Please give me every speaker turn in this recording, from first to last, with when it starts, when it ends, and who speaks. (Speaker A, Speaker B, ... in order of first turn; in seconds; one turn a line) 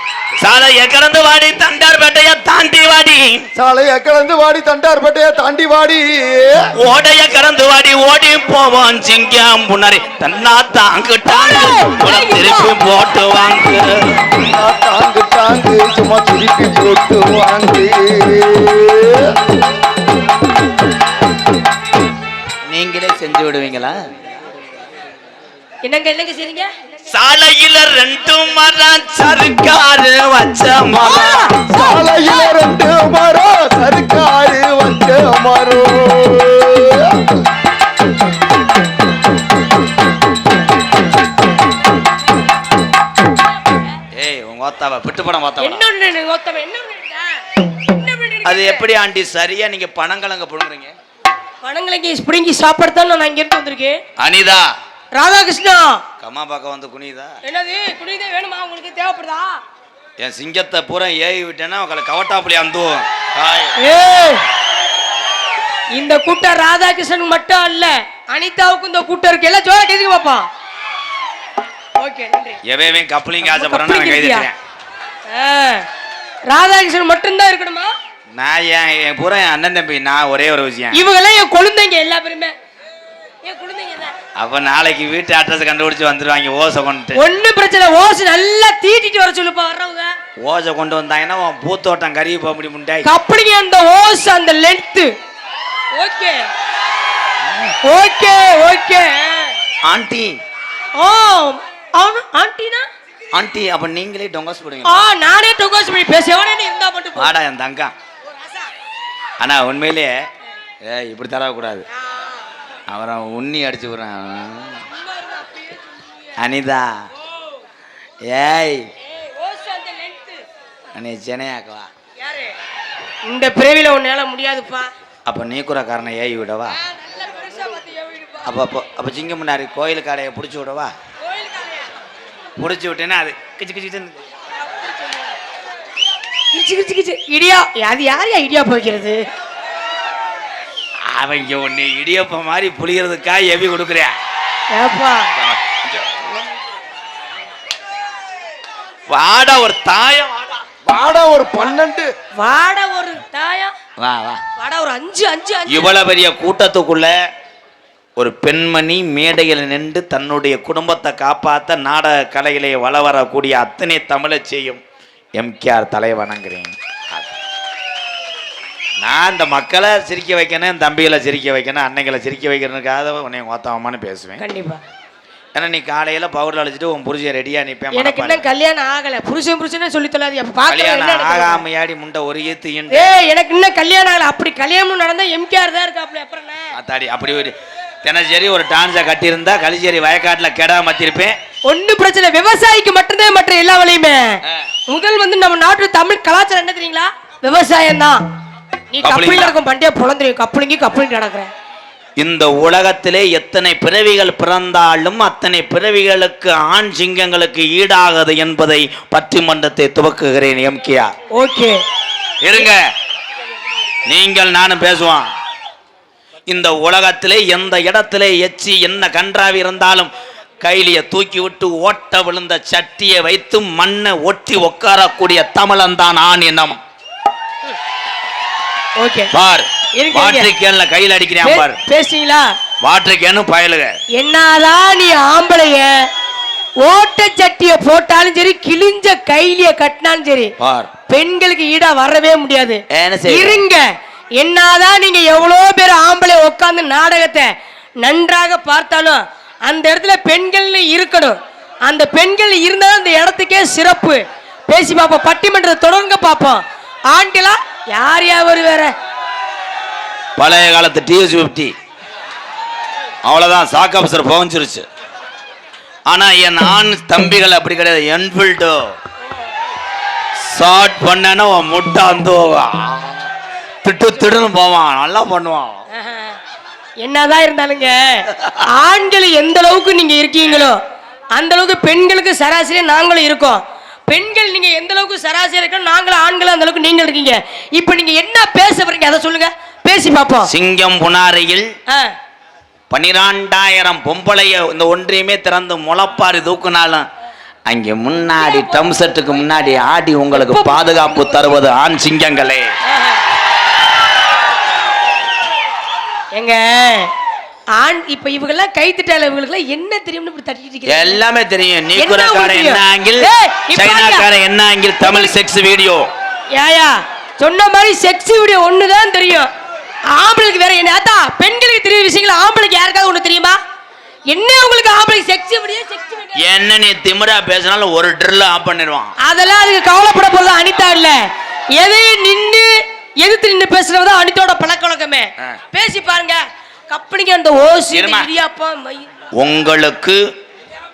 Speaker A: 0.4-3.5
Speaker B: 3.6-6.6
Speaker A: 6.8-14.4
Speaker C: 11.3-12.7
Speaker B: 14.4-19.3
Speaker A: 22.7-23.9
Speaker C: 25.8-26.7
Speaker A: 27.1-31.6
Speaker C: 31.0-32.5
Speaker B: 31.7-37.1
Speaker A: 44.1-45.9
Speaker C: 45.6-48.8
Speaker A: 48.5-50.9
Speaker C: 51.6-54.0
Speaker A: 54.2-54.7
Speaker C: 55.1-56.0
Speaker A: 56.2-57.4
Speaker C: 57.4-59.6
Speaker A: 60.2-63.8
Speaker C: 63.8-64.4
Speaker C: 65.9-70.5
Speaker C: 72.0-72.6
Speaker A: 72.6-74.5
Speaker C: 73.4-74.5
Speaker C: 75.3-75.9
Speaker C: 76.5-77.9
Speaker A: 78.3-81.0
Speaker C: 80.9-82.5
Speaker C: 83.4-84.1
Speaker A: 84.4-87.2
Speaker C: 87.1-90.1
Speaker A: 90.4-93.1
Speaker C: 93.0-95.1
Speaker C: 96.0-96.4
Speaker A: 97.4-97.8
Speaker C: 97.8-99.5
Speaker A: 99.9-100.4
Speaker C: 101.0-102.9
Speaker A: 103.3-105.0
Speaker C: 104.8-107.3
Speaker A: 107.2-107.9
Speaker A: 109.4-110.1
Speaker A: 110.8-111.8
Speaker A: 112.9-114.8
Speaker C: 115.1-116.1
Speaker A: 116.4-116.9
Speaker A: 118.3-118.9
Speaker C: 119.1-120.4
Speaker A: 120.9-121.9
Speaker C: 122.2-122.5
Speaker C: 123.3-124.9
Speaker A: 125.3-126.8
Speaker C: 126.8-128.5
Speaker A: 128.4-130.9
Speaker C: 131.2-132.0
Speaker A: 132.6-134.2
Speaker C: 134.7-135.3
Speaker C: 136.5-139.2
Speaker A: 141.1-144.1
Speaker C: 144.7-145.3
Speaker A: 145.4-146.4
Speaker A: 149.1-150.7
Speaker B: 150.8-152.1
Speaker C: 152.4-153.7
Speaker A: 154.0-154.4
Speaker C: 154.6-156.0
Speaker A: 155.7-157.1
Speaker A: 158.2-164.8
Speaker A: 165.4-167.3
Speaker A: 169.0-174.4
Speaker C: 174.4-174.8
Speaker A: 175.5-178.4
Speaker C: 177.9-181.6
Speaker A: 180.7-183.1
Speaker C: 182.9-186.7
Speaker A: 186.7-191.3
Speaker C: 191.7-198.2
Speaker C: 198.9-201.5
Speaker A: 199.0-199.5
Speaker A: 202.2-211.1
Speaker C: 211.3-211.8
Speaker A: 212.4-212.8
Speaker A: 214.1-215.3
Speaker A: 216.5-226.8
Speaker C: 229.0-229.3
Speaker A: 229.3-231.8
Speaker C: 230.0-230.5
Speaker C: 231.4-232.5
Speaker A: 232.8-233.9
Speaker C: 234.2-236.1
Speaker C: 236.8-240.5
Speaker A: 240.6-240.9
Speaker C: 241.1-243.8
Speaker A: 242.9-243.6
Speaker C: 244.4-247.5
Speaker C: 248.0-258.9
Speaker A: 260.4-261.7
Speaker A: 263.2-264.9
Speaker A: 266.1-268.8
Speaker A: 270.4-273.3
Speaker A: 273.8-275.8
Speaker C: 275.9-276.4
Speaker C: 277.0-280.8
Speaker C: 281.3-290.5
Speaker A: 290.5-291.7
Speaker A: 292.9-297.1
Speaker A: 297.7-302.7
Speaker C: 298.4-298.8
Speaker C: 300.3-301.5
Speaker C: 302.9-303.2
Speaker C: 306.3-307.1
Speaker C: 307.8-311.2
Speaker A: 310.9-316.1
Speaker C: 312.0-314.3
Speaker C: 315.1-315.3
Speaker C: 316.5-319.5
Speaker C: 320.1-323.6
Speaker C: 324.3-326.4
Speaker A: 326.4-329.1
Speaker C: 329.2-331.2
Speaker C: 331.8-339.1
Speaker A: 337.9-338.3
Speaker A: 339.4-340.2